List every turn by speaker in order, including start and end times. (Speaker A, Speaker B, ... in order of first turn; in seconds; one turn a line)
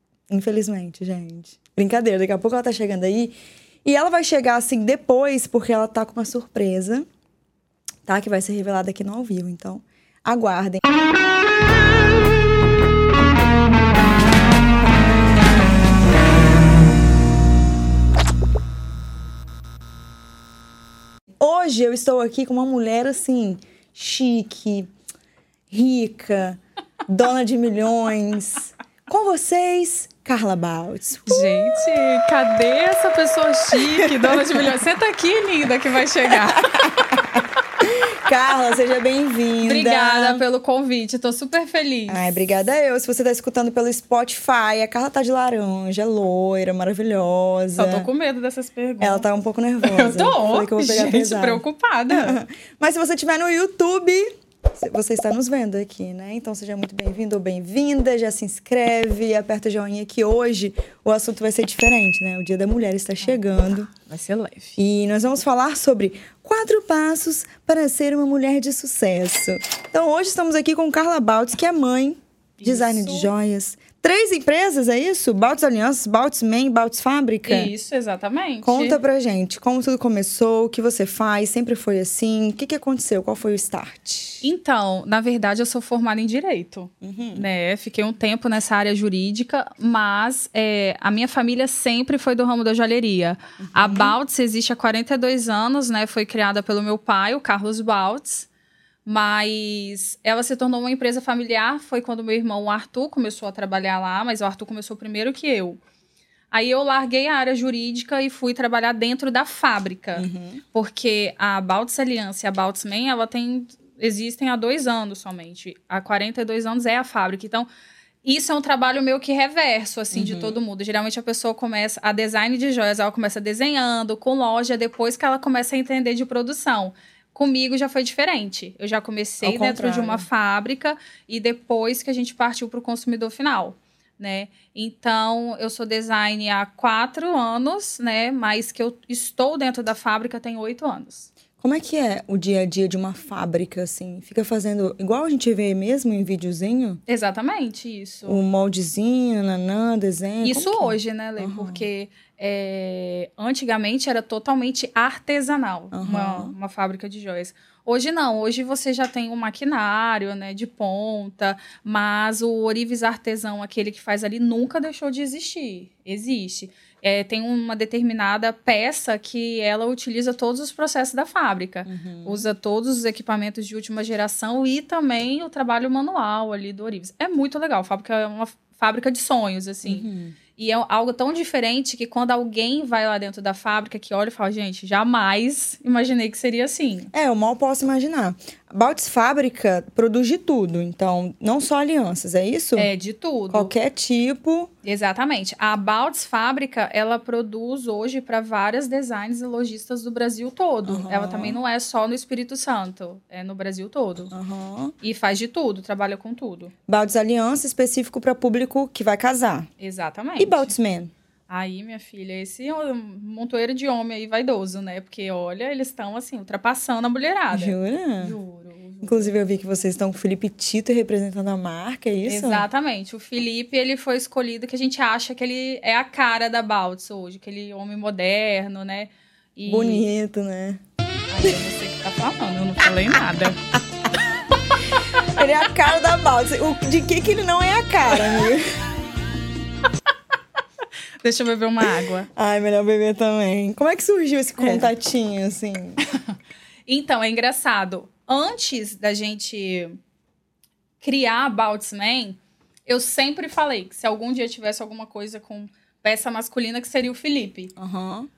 Speaker A: 0.3-7.0
Speaker A: 8.1-10.8
Speaker A: 21.4-24.9
Speaker A: 25.7-31.8
Speaker B: 31.3-37.0
Speaker A: 34.0-34.6
Speaker A: 36.5-37.2
Speaker A: 37.8-40.4
Speaker B: 39.6-42.2
Speaker A: 42.1-48.0
Speaker B: 47.8-49.3
Speaker A: 49.0-63.9
Speaker B: 49.8-52.4
Speaker B: 64.0-64.8
Speaker A: 64.8-77.7
Speaker B: 72.6-73.3
Speaker B: 77.5-79.0
Speaker A: 78.6-84.5
Speaker B: 84.4-98.5
Speaker A: 87.0-87.4
Speaker A: 93.6-94.1
Speaker B: 99.0-105.8
Speaker B: 106.5-117.7
Speaker A: 110.2-110.6
Speaker B: 118.2-141.3
Speaker A: 120.1-120.6
Speaker A: 129.4-130.2
Speaker A: 141.6-147.0
Speaker B: 147.1-148.4
Speaker A: 148.3-151.8
Speaker B: 150.4-180.0
Speaker A: 155.9-156.5
Speaker A: 171.8-172.4
Speaker A: 179.8-180.3
Speaker B: 180.6-187.1
Speaker A: 187.1-192.9
Speaker B: 192.8-193.7
Speaker A: 193.5-194.7
Speaker B: 194.8-204.3
Speaker A: 200.8-201.6
Speaker A: 204.3-204.9
Speaker B: 205.0-206.7
Speaker A: 206.9-209.7
Speaker B: 209.8-210.7
Speaker A: 210.4-211.1
Speaker B: 211.5-219.4
Speaker A: 217.5-218.3
Speaker A: 219.0-222.7
Speaker B: 222.2-230.1
Speaker A: 229.7-230.8
Speaker B: 231.3-233.6
Speaker A: 235.3-238.7
Speaker B: 241.2-242.3
Speaker A: 241.8-246.0
Speaker B: 244.6-244.9
Speaker B: 246.9-250.0
Speaker B: 251.0-257.7
Speaker A: 257.8-258.3